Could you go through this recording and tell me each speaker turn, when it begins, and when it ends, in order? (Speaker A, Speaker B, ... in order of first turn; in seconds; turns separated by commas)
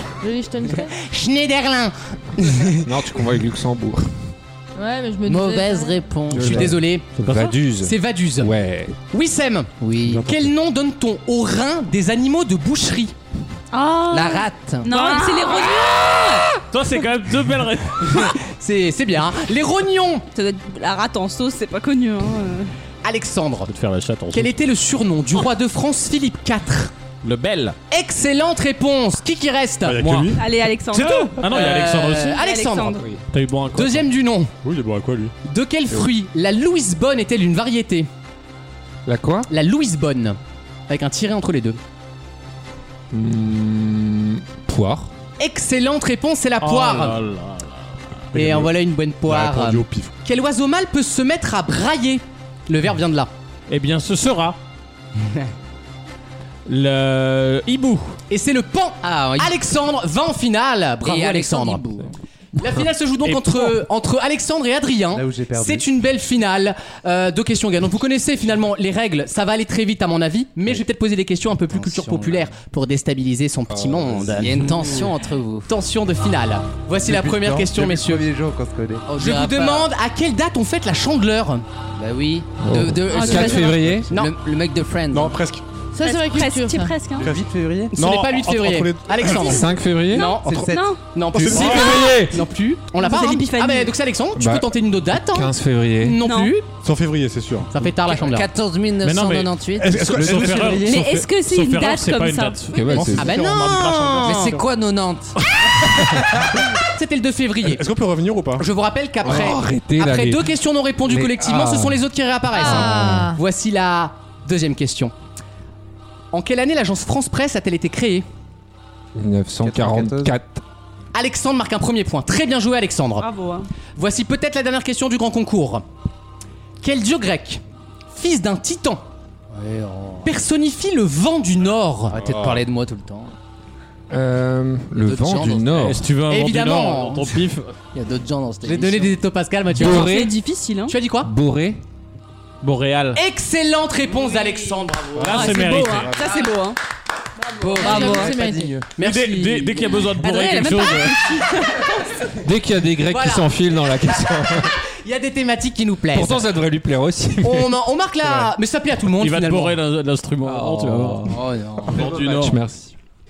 Speaker A: 0.2-0.9, Speaker B: 1.0-2.9, Speaker C: 2.8-4.1, Speaker A: 4.8-6.0, Speaker D: 5.2-6.8, Speaker B: 6.3-7.1, Speaker C: 6.3-9.0, Speaker E: 7.2-7.6, Speaker B: 7.8-8.5, Speaker B: 9.1-13.1, Speaker D: 9.8-10.3, Speaker F: 10.0-10.4, Speaker G: 13.7-16.6, Speaker D: 14.1-15.1, Speaker E: 16.7-18.4, Speaker B: 18.1-20.2, Speaker G: 20.3-22.7, Speaker B: 23.0-23.7, Speaker E: 23.7-24.5, Speaker B: 24.3-26.9, Speaker E: 27.2-27.8, Speaker B: 27.9-30.3, Speaker F: 29.8-30.4, Speaker G: 30.3-31.4, Speaker E: 30.9-32.4, Speaker B: 31.4-33.0, Speaker G: 32.2-33.1, Speaker E: 33.3-34.1, Speaker B: 33.7-34.5, Speaker F: 34.6-35.3, Speaker B: 35.4-38.1, Speaker C: 39.0-39.5, Speaker B: 39.5-40.4, Speaker B: 40.9-41.8, Speaker C: 43.1-45.1, Speaker B: 45.4-47.2, Speaker E: 46.6-47.9, Speaker F: 48.3-48.7, Speaker B: 48.3-53.3, Speaker F: 49.2-50.1, Speaker E: 53.7-54.6, Speaker E: 56.6-58.1, Speaker B: 58.3-61.8, Speaker D: 59.0-59.5, Speaker D: 61.0-62.1, Speaker B: 62.6-74.9, Speaker E: 63.2-63.8, Speaker H: 65.1-65.9, Speaker D: 71.7-72.5, Speaker C: 73.7-74.5, Speaker D: 74.3-75.7, Speaker B: 75.7-78.2, Speaker H: 77.0-79.1, Speaker D: 79.1-79.9, Speaker B: 79.2-81.6, Speaker D: 82.0-85.4, Speaker C: 82.6-84.1, Speaker G: 83.1-83.9, Speaker F: 85.1-85.6, Speaker A: 85.9-86.9, Speaker G: 86.0-87.3, Speaker H: 87.2-88.0, Speaker F: 87.2-89.5, Speaker B: 87.9-96.6, Speaker G: 89.3-91.1, Speaker C: 89.4-90.3, Speaker H: 90.4-91.0, Speaker F: 91.3-92.0, Speaker C: 91.4-92.4, Speaker G: 91.7-92.1, Speaker G: 92.9-93.9, Speaker C: 94.3-96.2, Speaker G: 96.2-96.5, Speaker F: 96.8-97.9, Speaker B: 97.7-98.5, Speaker D: 98.1-100.2, Speaker E: 99.0-102.8, Speaker F: 99.8-100.9, Speaker H: 100.1-100.8, Speaker G: 100.8-103.1, Speaker C: 102.7-103.4, Speaker F: 102.9-104.6, Speaker B: 103.2-104.6, Speaker D: 104.2-105.3, Speaker F: 105.6-106.5, Speaker B: 106.9-107.8, Speaker F: 107.6-108.7, Speaker B: 108.6-115.1, Speaker C: 109.2-110.5, Speaker C: 111.0-112.0, Speaker A: 112.5-113.4, Speaker C: 112.6-113.3, Speaker B: 116.3-118.2, Speaker C: 119.1-120.6, Speaker H: 119.6-120.3, Speaker B: 121.1-123.3, Speaker G: 123.2-123.7, Speaker B: 124.0-125.8, Speaker B: 126.8-127.6, Speaker B: 128.1-129.0, Speaker D: 129.5-130.3, Speaker B: 130.2-132.2, Speaker D: 132.1-133.3, Speaker F: 132.1-132.6, Speaker C: 134.1-136.1, Speaker D: 135.0-136.0, Speaker E: 135.8-137.7, Speaker B: 136.2-137.4, Speaker D: 137.9-139.2, Speaker B: 138.6-140.1, Speaker C: 139.7-140.3, Speaker G: 139.8-141.0, Speaker B: 140.9-141.3, Speaker C: 141.2-141.8, Speaker E: 142.6-143.2, Speaker B: 143.2-145.7, Speaker F: 145.2-146.4, Speaker E: 145.2-146.1, Speaker G: 145.2-146.8, Speaker D: 147.6-148.6, Speaker G: 147.7-148.3, Speaker A: 147.8-148.7, Speaker H: 147.8-148.9, Speaker B: 148.9-149.9, Speaker E: 149.0-151.3, Speaker G: 150.0-152.3, Speaker C: 152.4-154.7, Speaker B: 153.1-153.7, Speaker B: 154.8-156.5, Speaker C: 156.1-157.8, Speaker B: 157.4-159.8, Speaker E: 159.2-161.4, Speaker C: 160.4-161.3, Speaker D: 161.2-162.1, Speaker E: 161.9-162.6, Speaker C: 161.9-162.9, Speaker H: 162.0-162.4